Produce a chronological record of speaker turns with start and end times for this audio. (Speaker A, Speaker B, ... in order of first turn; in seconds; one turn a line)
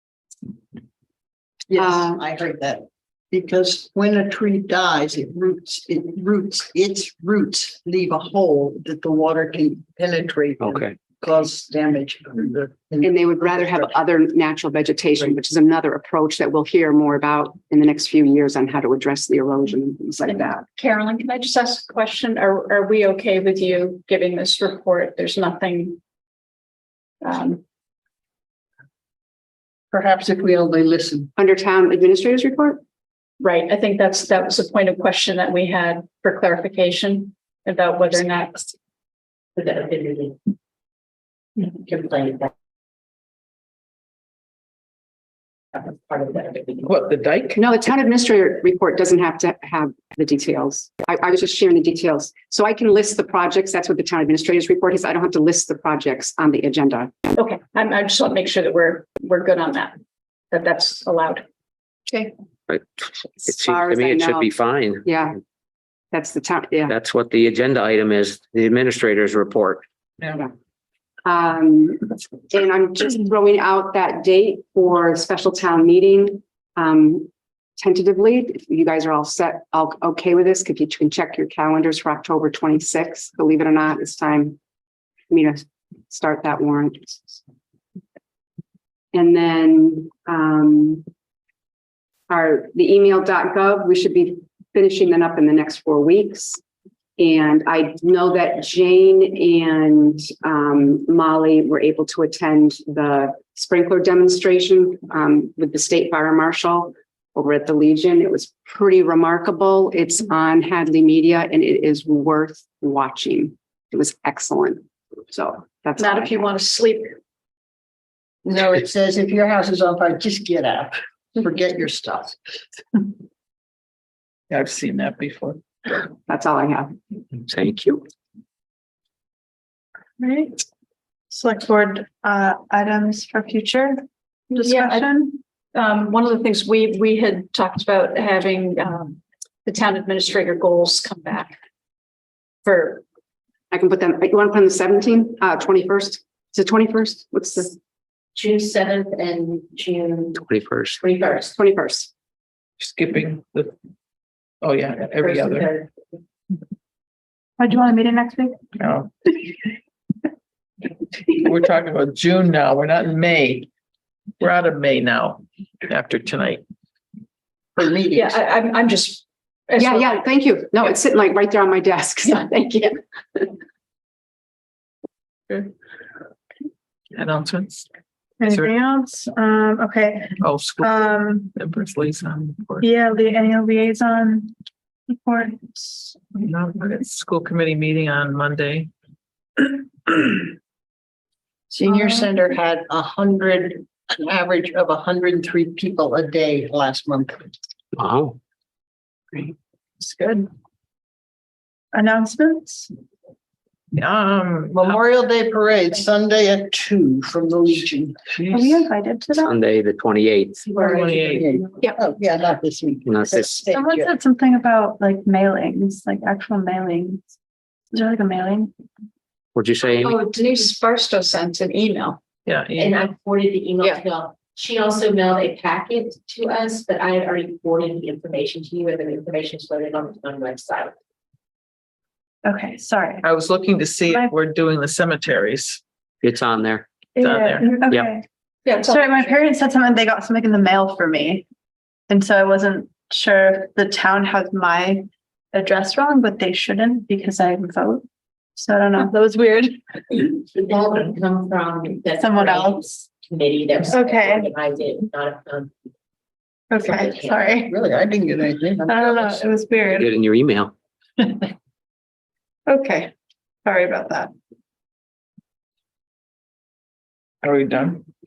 Speaker A: 1.7-13.8
Speaker B: 1.8-2.2
Speaker B: 13.0-20.6
Speaker C: 20.3-26.0
Speaker C: 27.2-27.6
Speaker A: 29.9-31.3
Speaker B: 31.4-32.8
Speaker C: 33.4-38.7
Speaker D: 39.5-40.4
Speaker D: 41.6-42.5
Speaker D: 45.7-46.8
Speaker E: 46.8-47.6
Speaker B: 47.5-57.1
Speaker C: 57.3-60.0
Speaker C: 60.5-61.4
Speaker B: 63.4-64.5
Speaker F: 63.5-65.0
Speaker B: 65.0-65.3
Speaker B: 66.1-66.9
Speaker F: 66.9-69.8
Speaker B: 71.2-84.6
Speaker B: 85.3-87.4
Speaker B: 89.1-91.0
Speaker B: 92.3-96.6
Speaker B: 97.2-116.5
Speaker C: 116.0-117.2
Speaker A: 118.4-122.3
Speaker E: 124.5-125.6
Speaker B: 126.3-126.9
Speaker F: 127.5-128.0
Speaker G: 130.2-130.6
Speaker G: 131.3-135.3
Speaker C: 134.5-141.6
Speaker C: 142.6-143.0
Speaker B: 143.7-147.8
Speaker D: 148.3-150.4
Speaker F: 150.6-150.9
Speaker D: 151.0-151.5
Speaker B: 151.6-152.1
Speaker E: 152.8-153.7
Speaker E: 154.6-155.8
Speaker D: 155.1-155.6
Speaker G: 157.6-158.6
Speaker E: 158.8-159.1
Speaker E: 161.3-163.7
Speaker E: 164.4-166.6
Speaker A: 167.8-168.4
Speaker C: 168.1-170.2
Speaker B: 169.8-173.5
Speaker E: 177.1-177.9
Speaker G: 178.4-181.5
Speaker E: 178.5-178.7
Speaker E: 180.4-182.8
Speaker G: 182.8-184.5
Speaker G: 185.1-186.3
Speaker E: 186.3-188.9
Speaker E: 190.1-190.4
Speaker A: 191.7-197.4
Speaker G: 191.9-192.3
Speaker F: 197.9-198.4
Speaker E: 200.0-200.4
Speaker G: 201.9-202.9
Speaker E: 203.9-205.0
Speaker A: 204.8-208.8
Speaker G: 208.5-209.5
Speaker F: 209.4-210.7
Speaker E: 210.7-211.6
Speaker D: 210.9-211.3
Speaker A: 211.3-214.1
Speaker F: 213.1-213.6
Speaker G: 213.7-217.3
Speaker G: 217.9-218.7
Speaker F: 219.5-220.2
Speaker C: 219.9-222.2
Speaker E: 222.4-223.1
Speaker D: 222.8-230.9
Speaker G: 232.4-233.2
Speaker E: 233.2-235.8
Speaker G: 234.1-234.3
Speaker F: 236.2-236.8
Speaker G: 237.2-238.2
Speaker E: 237.2-237.8
Speaker C: 238.7-239.2
Speaker G: 238.8-241.4
Speaker G: 242.1-248.0
Speaker G: 248.6-249.8
Speaker D: 250.3-255.7
Speaker G: 252.1-252.9
Speaker G: 253.8-254.5
Speaker G: 256.7-257.7
Speaker D: 256.8-257.5
Speaker A: 257.6-259.4
Speaker G: 258.9-260.1
Speaker F: 259.9-260.7
Speaker G: 262.6-263.1
Speaker G: 263.6-264.3
Speaker E: 267.4-268.0